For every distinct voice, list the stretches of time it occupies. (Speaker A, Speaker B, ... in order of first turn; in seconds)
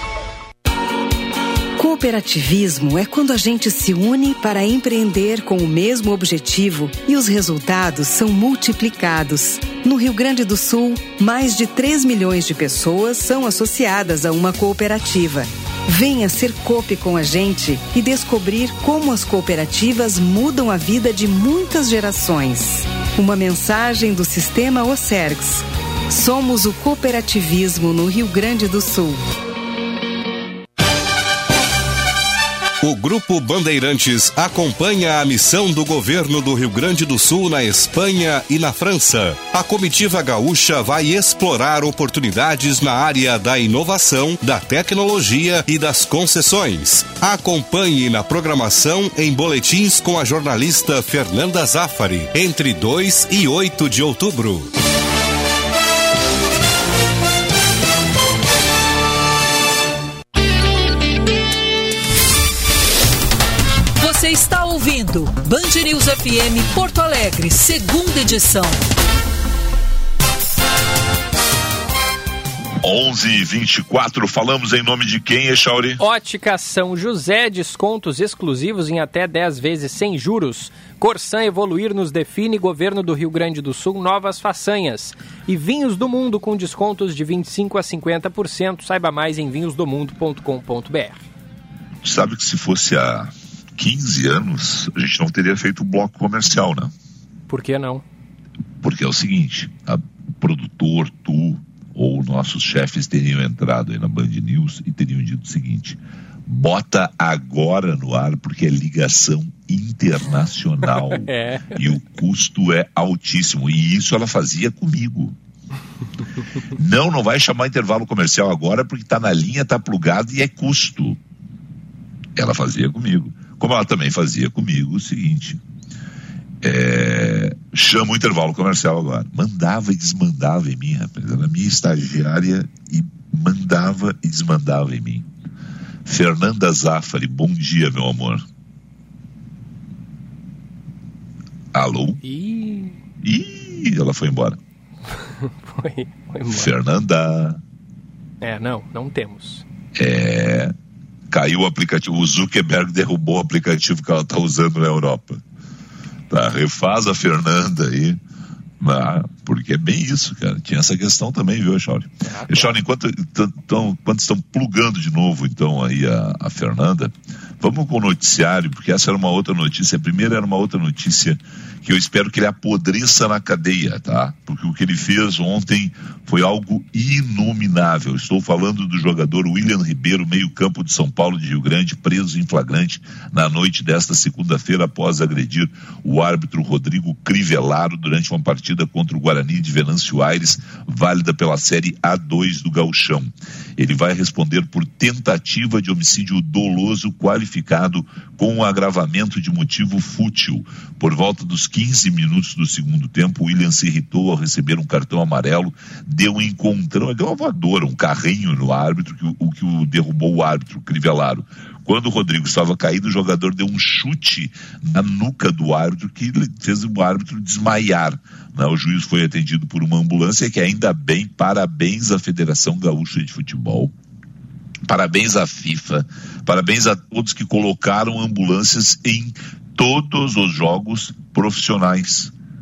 Speaker A: 1.8-29.2
Speaker B: 32.8-54.7
Speaker C: 64.0-68.9
Speaker D: 72.8-76.0, 92.0-96.9, 98.8-115.3, 116.7-121.2, 122.3-125.6, 126.6-135.3, 136.0-138.4, 141.7-142.2, 143.2-144.6, 146.5-147.6, 149.9-150.7, 151.3-155.4, 156.3-158.2, 158.8-223.9, 224.8-232.3
Speaker E: 76.0-91.2, 97.5-98.0, 110.9-111.9, 142.2-143.0, 145.4-146.7, 148.4-149.6, 162.2-162.8